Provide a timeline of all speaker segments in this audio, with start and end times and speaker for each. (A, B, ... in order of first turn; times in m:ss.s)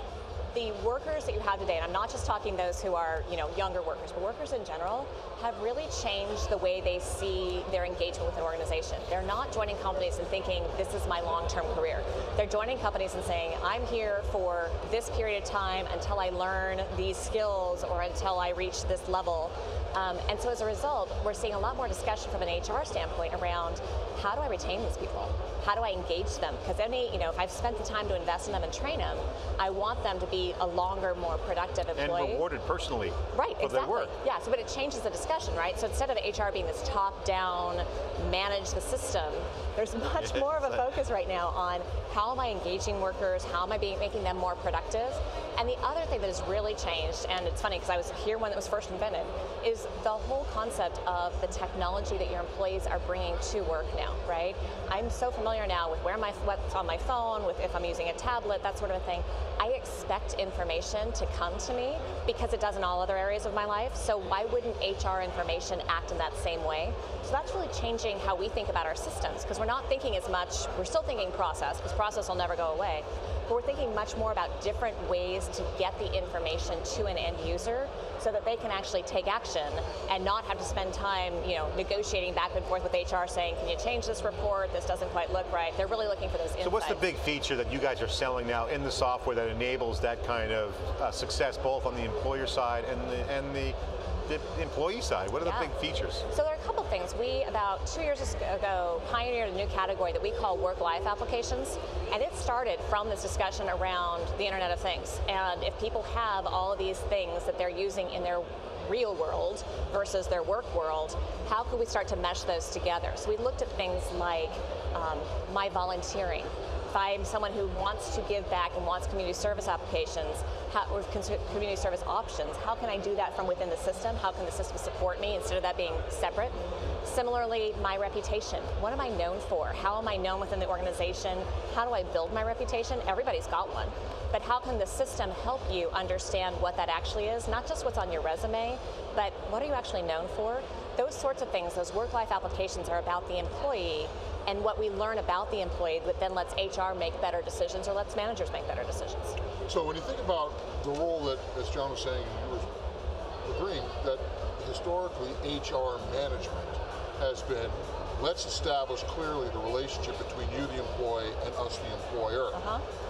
0:00.5-0:32.5 A
0:31.9-0:34.1 B
0:33.3-1:27.0 A
0:40.2-0:40.6 B
1:26.6-1:36.2 B
1:35.4-1:35.7 A
1:36.3-2:29.4 A
2:29.7-2:32.7 C
2:33.4-2:42.6 C
2:42.5-2:42.8 A